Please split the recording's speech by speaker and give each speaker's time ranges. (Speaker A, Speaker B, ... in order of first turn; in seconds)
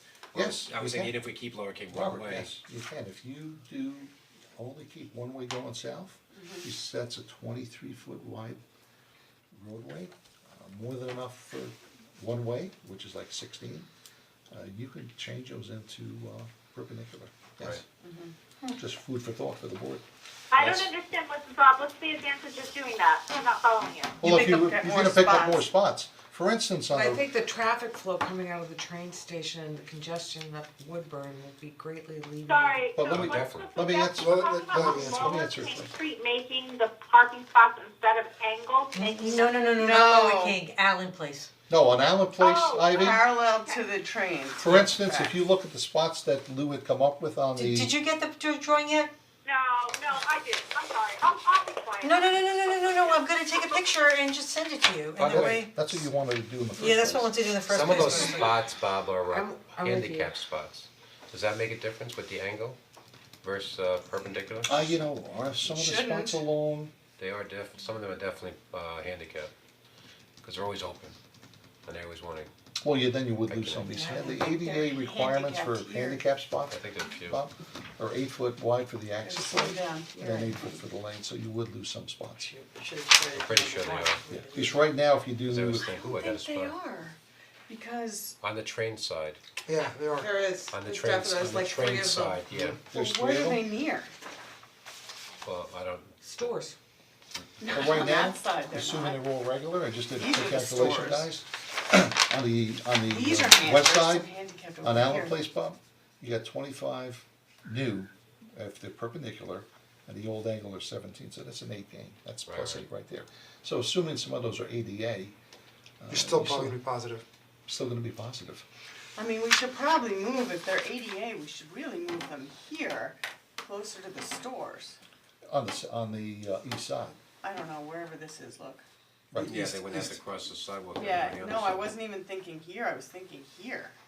Speaker A: 0.3-2.5, 33.1-33.6, 55.2-55.7, 57.7-62.8, 63.4-64.9, 67.2-69.5, 70.4-71.2, 71.9-72.5, 73.5-74.3, 76.7-77.4, 83.3-84.2, 85.4-86.8, 88.4-89.4, 90.7-92.8, 95.4-96.6, 112.5-112.9, 129.4-132.0
Speaker B: 0.3-1.2, 1.9-8.6, 9.5-13.9, 14.5-17.8, 18.7-20.0, 20.6-20.9, 24.2-27.2, 33.0-35.9, 41.7-43.3, 44.6-47.9, 55.3-57.4, 64.6-66.9, 72.8-82.5, 84.3-85.9, 92.8-93.7, 97.7-104.3, 104.8-115.3, 116.0-116.8, 117.7-118.7, 125.5-127.2
Speaker C: 6.3-6.7, 18.0-18.4, 24.5-25.7, 39.8-40.6, 42.7-45.4, 65.7-66.4, 74.3-76.2, 79.2-80.8, 85.8-87.2, 87.7-88.4, 92.8-94.1, 97.6-99.2, 100.2-101.3, 103.1-105.4, 119.2-125.0, 127.4-128.8, 129.5-130.2, 131.0-133.9
Speaker D: 20.5-24.2, 32.5-39.7, 42.4-43.8, 49.5-53.8
Speaker E: 24.2-25.3, 26.9-32.9, 59.2-60.4, 82.4-84.8, 90.2-92.4, 96.2-96.8
Speaker F: 34.2-35.5, 89.7-90.3, 116.1-117.2, 129.4-130.0
Speaker G: 39.0-41.5, 47.5-49.1, 52.0-56.0, 56.8-58.6